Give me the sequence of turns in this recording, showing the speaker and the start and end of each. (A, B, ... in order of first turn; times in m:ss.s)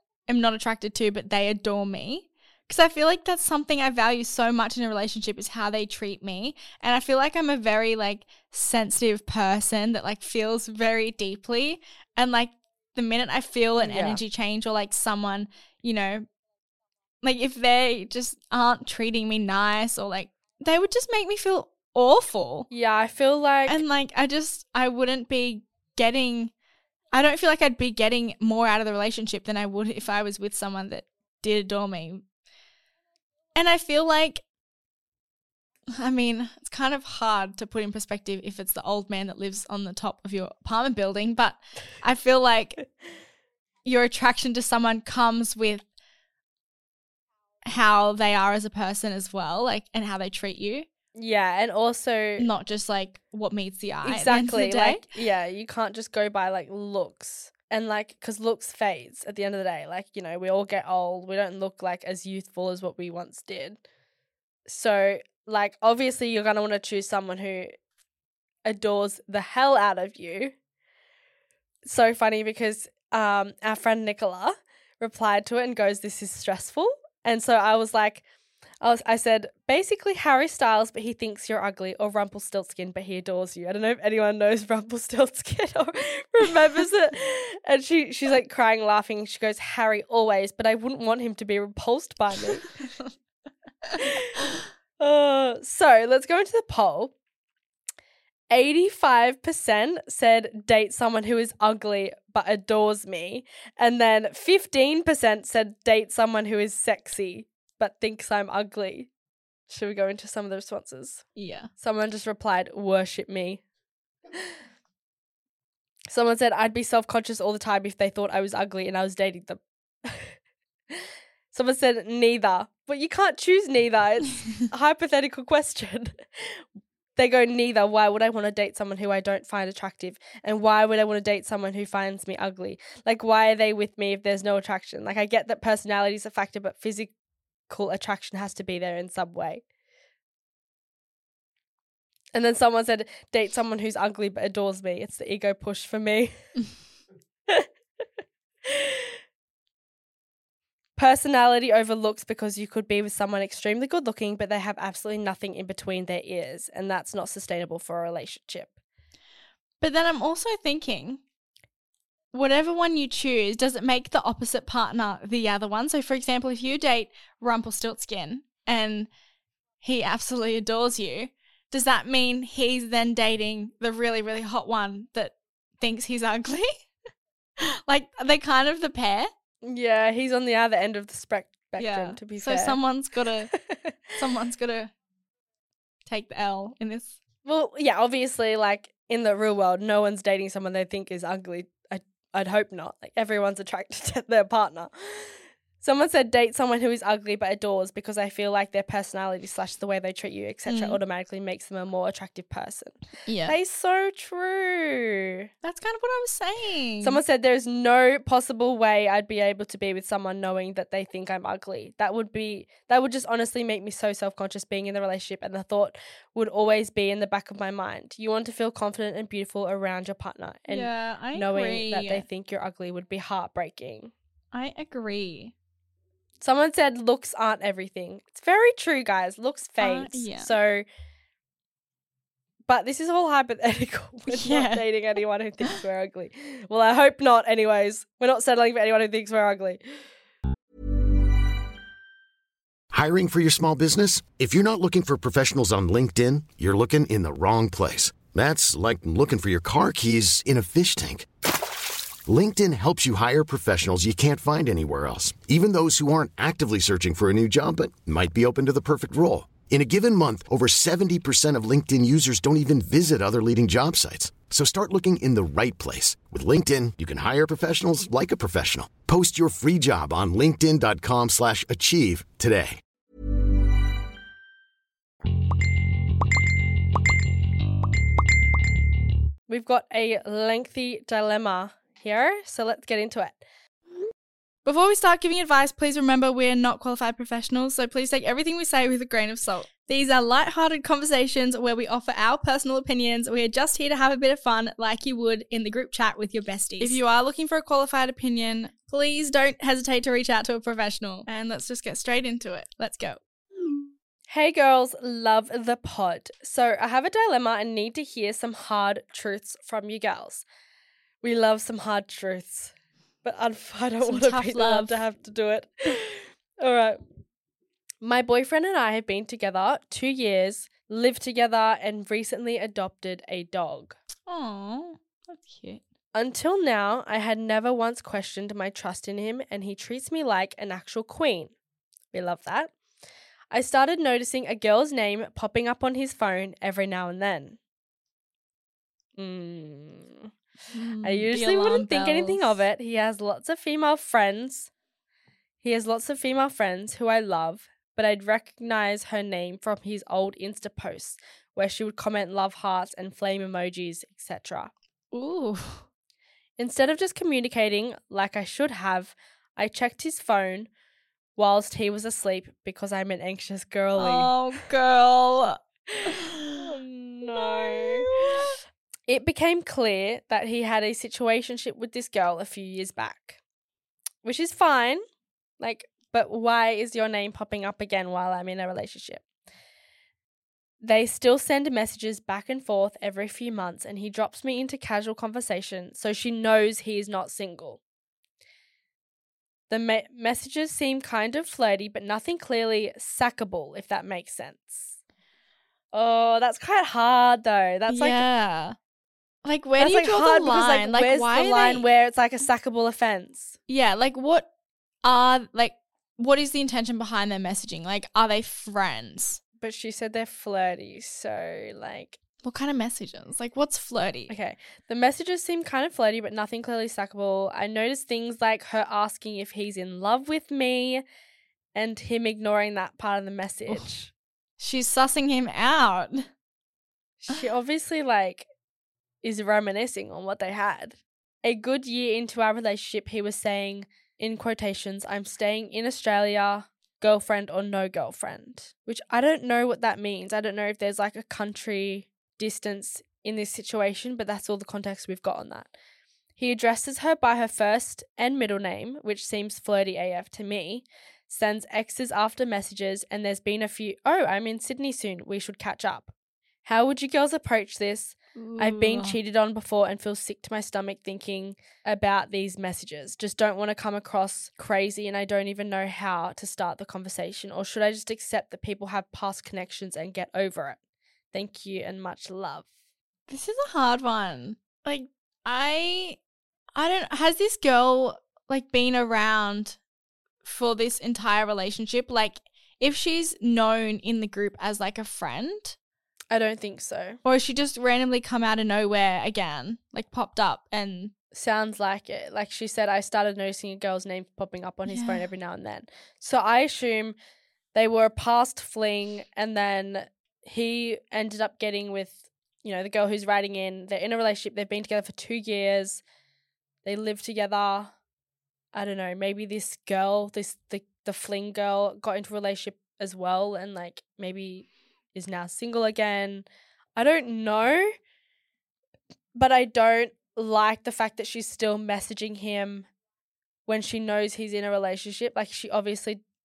0:00.3-0:16.3 A
0:13.8-0:14.2 B
0:17.2-0:22.7 A
0:22.7-0:23.8 B
0:23.7-0:26.5 A
0:27.1-0:32.2 A
0:33.6-0:34.4 A
0:36.0-0:42.9 A
0:43.8-0:45.8 A
0:47.7-0:50.9 A
0:51.2-0:52.5 B
0:52.4-0:55.1 A
0:54.0-1:03.8 B
1:04.7-1:07.7 B
1:08.7-1:10.6 B
1:11.8-1:18.2 B
1:18.8-1:32.7 B
1:34.0-1:34.4 B
1:35.0-1:37.1 B
1:38.5-1:49.1 B
1:49.7-1:51.2 B
1:51.4-1:51.7 A
1:51.8-1:53.6 B
1:56.1-2:00.4 B
2:00.9-2:06.6 B
2:07.2-2:17.1 B
2:17.7-2:19.6 B
2:22.3-2:26.5 B
2:28.6-2:29.2 B
2:31.0-2:38.7 B
2:39.8-2:41.2 A
2:42.3-2:49.1 A
2:49.8-2:56.8 A
2:57.6-2:59.3 A
2:59.6-3:02.8 B
3:01.8-3:03.5 A
3:03.5-3:04.0 B
3:04.2-3:04.9 A
3:06.1-3:07.2 A
3:07.4-3:25.5 B
3:20.7-3:21.0 A
3:23.3-3:23.6 A
3:25.6-3:27.2 A
3:27.0-3:44.1 B
3:40.7-3:42.2 A
3:44.5-3:45.5 A
3:46.4-3:50.8 B
3:49.8-3:50.5 A
3:52.7-4:00.0 B
3:54.3-3:54.9 A
4:02.9-4:11.3 C
4:12.3-4:32.8 C
4:39.5-4:43.4 B
4:44.6-5:03.2 A
5:04.3-5:10.4 B
5:11.2-5:12.7 B
5:13.2-5:17.0 B
5:14.0-5:15.0 A
5:18.0-5:24.0 B
5:24.3-5:25.8 A
5:26.2-5:31.5 B
5:32.1-5:32.7 B
5:33.5-5:37.6 B
5:39.2-5:40.3 B
5:40.7-5:42.6 A
5:41.0-5:44.7 B
5:45.6-5:54.7 B
5:55.1-5:55.8 A
5:56.6-6:00.7 B
6:01.4-6:04.3 B
6:04.0-6:06.7 A
6:05.9-6:08.4 B
6:07.3-6:08.6 A
6:09.1-6:13.4 B
6:14.2-6:15.0 B
6:15.6-6:19.2 B
6:20.8-6:27.8 B
6:29.7-6:35.0 B
6:35.9-6:38.2 B
6:37.9-6:38.8 A
6:39.4-6:41.9 A
6:39.8-6:43.6 B
6:43.7-6:44.5 A
6:45.0-6:49.4 A
6:49.6-6:52.2 B
6:52.4-6:54.3 A
6:54.3-7:01.0 B
7:01.8-7:04.1 B
7:04.6-7:06.3 A
7:07.2-7:08.5 B
7:09.2-7:25.7 B
7:26.4-7:36.1 B
7:36.6-7:50.8 B
7:38.4-7:39.2 A
7:51.3-7:52.7 B
7:53.3-7:56.2 A
7:56.8-7:59.8 A
8:00.4-8:05.8 A
8:06.3-8:07.2 B
8:07.2-8:11.1 A
8:11.3-8:17.2 B
8:14.9-8:15.3 A
8:17.8-8:26.0 B
8:26.8-8:28.0 B
8:28.7-8:37.9 B
8:39.4-8:42.9 B
8:43.7-8:46.2 B